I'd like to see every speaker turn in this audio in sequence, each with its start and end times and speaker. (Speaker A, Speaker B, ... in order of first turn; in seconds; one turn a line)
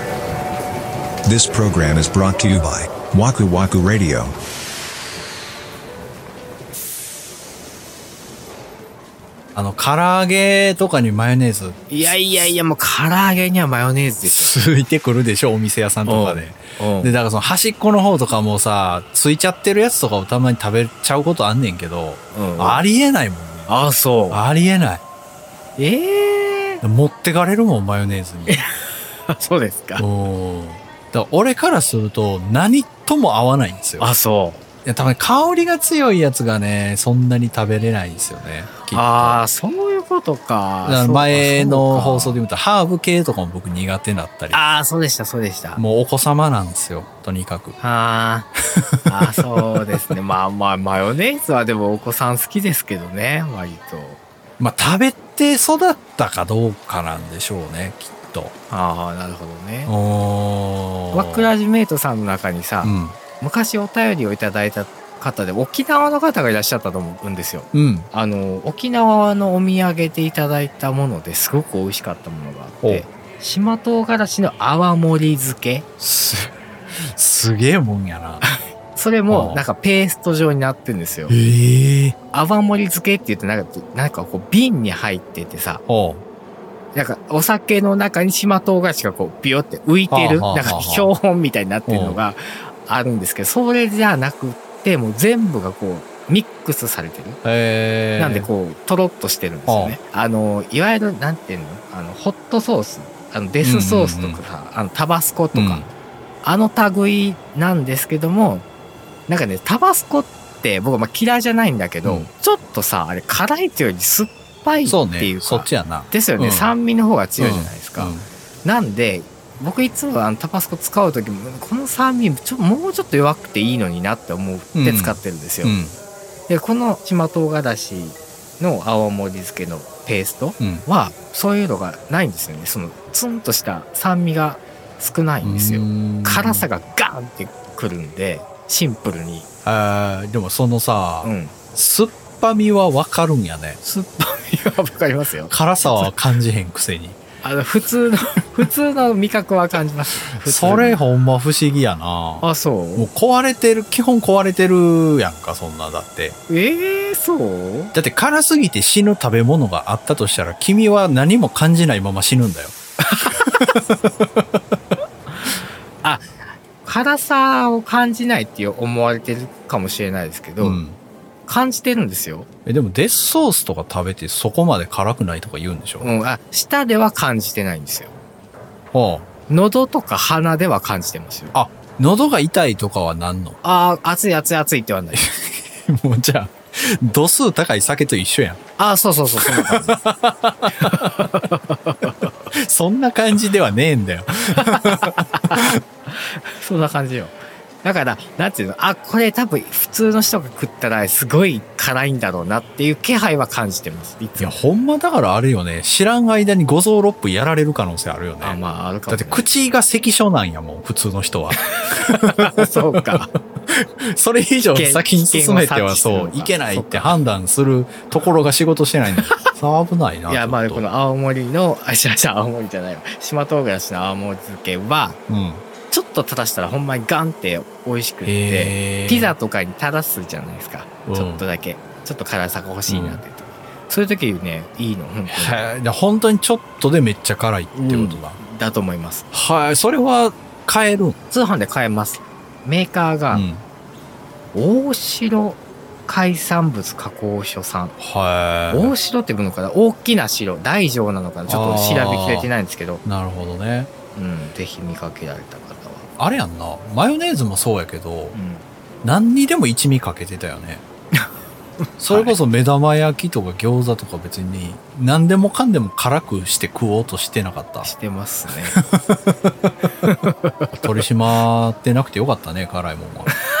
Speaker A: 1.2-4.3
Speaker B: 9.5-11.8
Speaker C: 11.9-14.5
Speaker B: 14.2-23.7
Speaker C: 16.1-17.2
Speaker C: 22.3-22.8
Speaker C: 23.7-24.4
Speaker B: 24.3-25.0
Speaker C: 25.8-26.8
Speaker B: 26.8-28.6
Speaker C: 29.3-30.0
Speaker B: 30.0-34.1
Speaker C: 34.0-34.6
Speaker B: 34.8-39.4
Speaker C: 38.9-42.4
Speaker B: 40.8-44.6
Speaker C: 44.5-45.8
Speaker B: 45.8-47.8
Speaker C: 47.8-48.5
Speaker B: 48.8-49.4
Speaker C: 49.0-54.2
Speaker B: 54.6-58.5
Speaker C: 58.7-59.9
Speaker B: 59.9-61.5
Speaker C: 61.1-75.9
Speaker B: 62.8-63.1
Speaker B: 67.7-68.1
Speaker B: 76.0-76.5
Speaker B: 77.1-78.4
Speaker C: 78.4-81.3
Speaker B: 79.3-79.6
Speaker B: 81.3-82.2
Speaker C: 82.3-85.8
Speaker B: 85.8-86.2
Speaker C: 86.9-97.4
Speaker B: 90.1-91.1
Speaker B: 91.9-92.2
Speaker B: 97.4-98.5
Speaker C: 98.2-105.9
Speaker B: 99.7-100.0
Speaker B: 103.6-104.4
Speaker B: 105.5-105.9
Speaker C: 106.4-108.7
Speaker C: 109.3-125.8
Speaker B: 114.8-116.7
Speaker B: 117.4-118.2
Speaker B: 124.7-125.9
Speaker C: 126.5-139.4
Speaker B: 130.6-130.8
Speaker B: 135.4-136.7
Speaker B: 139.6-143.8
Speaker C: 141.2-141.5
Speaker C: 143.8-146.1
Speaker B: 145.5-147.2
Speaker C: 147.4-151.0
Speaker B: 150.3-156.4
Speaker C: 152.4-153.1
Speaker C: 156.5-157.9
Speaker B: 157.9-162.7
Speaker C: 163.0-163.4
Speaker B: 163.4-163.8
Speaker C: 166.8-170.8
Speaker B: 170.6-171.0
Speaker C: 171.4-172.5
Speaker B: 172.7-176.1
Speaker C: 176.0-178.2
Speaker B: 178.9-179.2
Speaker C: 179.5-181.6
Speaker B: 181.5-183.6
Speaker C: 183.6-185.2
Speaker B: 185.1-188.6
Speaker C: 188.8-190.0
Speaker B: 189.4-191.1
Speaker C: 190.8-192.3
Speaker B: 192.5-195.8
Speaker C: 194.5-204.6
Speaker B: 204.4-220.8
Speaker C: 208.4-209.5
Speaker C: 211.8-213.3
Speaker C: 214.7-217.2
Speaker C: 219.1-219.5
Speaker C: 220.3-225.2
Speaker B: 225.3-225.6
Speaker C: 225.9-235.7
Speaker B: 228.2-229.3
Speaker B: 231.1-231.4
Speaker B: 232.9-233.2
Speaker B: 235.3-238.4
Speaker C: 237.7-239.3
Speaker B: 239.3-241.2
Speaker C: 241.3-243.5
Speaker B: 243.3-243.6
Speaker C: 244.5-247.9
Speaker B: 248.0-248.9
Speaker C: 248.7-253.0
Speaker B: 251.5-252.5
Speaker B: 253.0-253.9
Speaker C: 254.1-256.1
Speaker B: 256.2-258.4
Speaker C: 258.3-258.6
Speaker B: 259.0-260.8
Speaker C: 262.0-262.4
Speaker B: 262.0-267.9
Speaker C: 267.8-268.8
Speaker B: 268.7-269.7
Speaker C: 270.0-270.7
Speaker B: 270.8-273.4